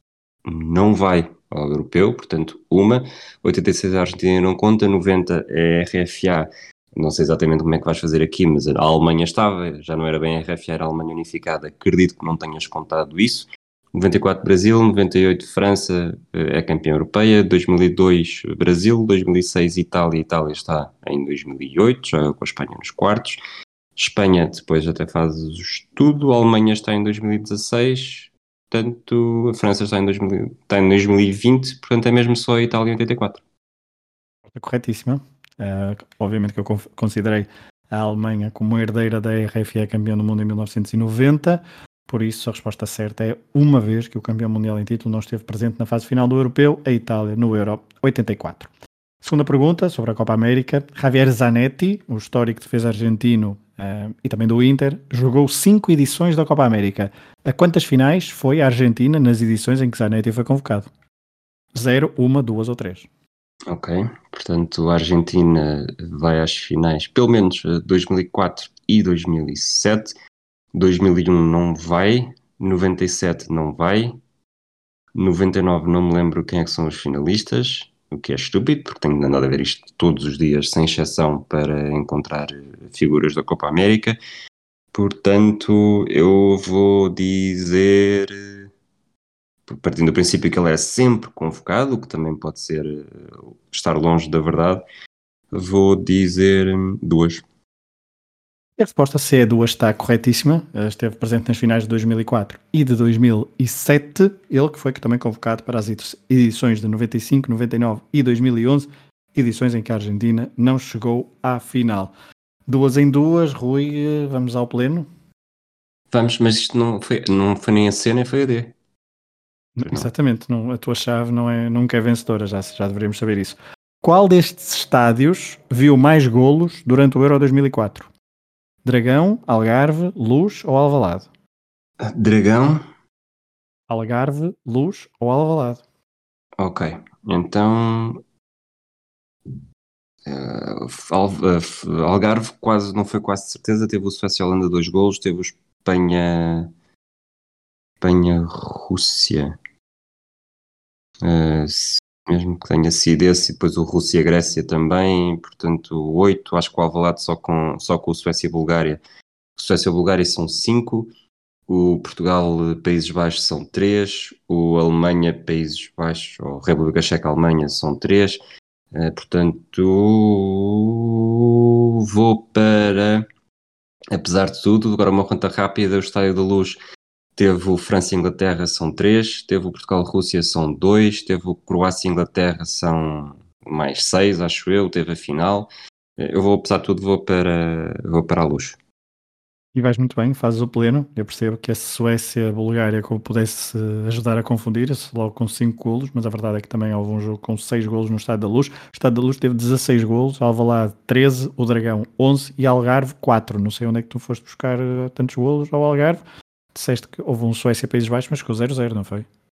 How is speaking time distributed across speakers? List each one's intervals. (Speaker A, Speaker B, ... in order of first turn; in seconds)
Speaker A: 0.4-23.4, 23.9-33.4, 63.7-70.1, 70.7-74.2, 75.1-84.2, 84.9-88.7, 89.7-94.8, 95.5-97.4, 116.1-118.8, 132.0-132.8, 136.6-138.2, 140.2-146.7, 148.0-149.6, 151.2-159.0, 159.6-161.1, 161.7-168.4, 168.9-173.3, 174.1-176.8, 177.4-188.8
Speaker B: 34.5-48.7, 49.2-60.9, 61.7-63.1, 98.8-112.1, 112.7-115.1, 119.8-128.1, 128.8-131.3, 133.9-135.8, 189.7-206.2, 206.7-209.2